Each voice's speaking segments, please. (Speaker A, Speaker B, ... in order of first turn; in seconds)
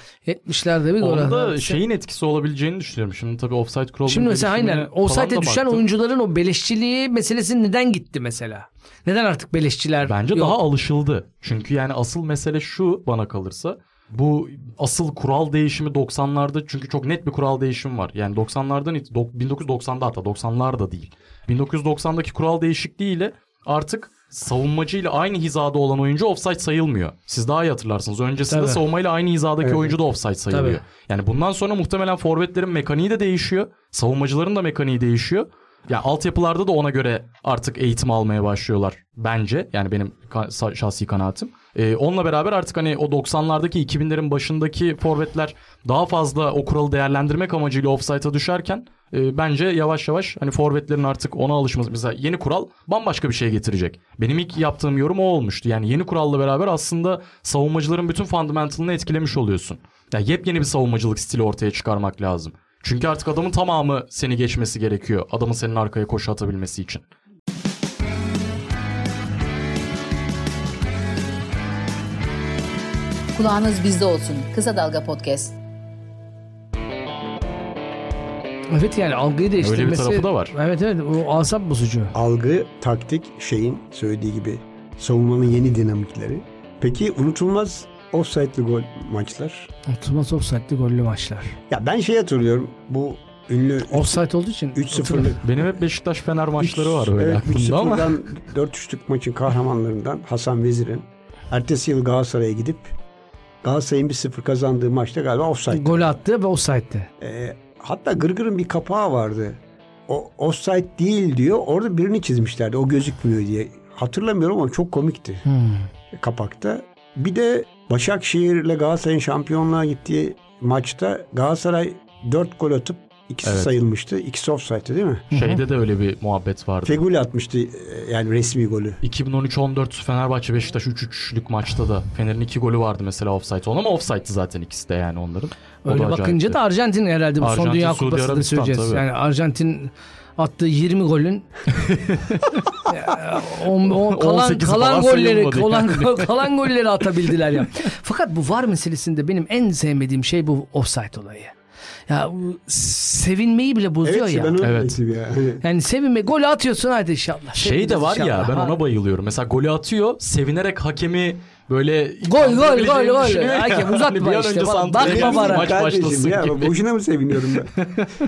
Speaker A: 0.3-1.8, 4.1-10.6, 28.5-28.8, 30.5-30.8, 78.7-82.1, 89.9-91.6, 93.9-95.4, 105.7-107.1, 115.5-115.9, 125.3-125.6, 135.8-141.5, 142.8-151.5, 152.1-154.6, 155.6-158.8, 162.2-165.7
Speaker B: 1.0-5.9, 10.1-67.0, 79.6-80.5, 95.4-98.2, 123.4-123.7, 125.3-127.0, 129.0-136.6, 137.4-139.1, 141.8-142.6, 143.7-146.5, 154.6-155.0, 157.5-166.8, 167.8-168.1
Speaker C: 29.6-29.9, 82.1-89.7, 91.7-94.2, 94.7-95.6, 96.6-103.0, 103.6-106.1, 107.2-115.4, 116.1-125.3, 126.8-129.0, 154.0-155.6, 165.0-167.8
Speaker D: 73.3-75.6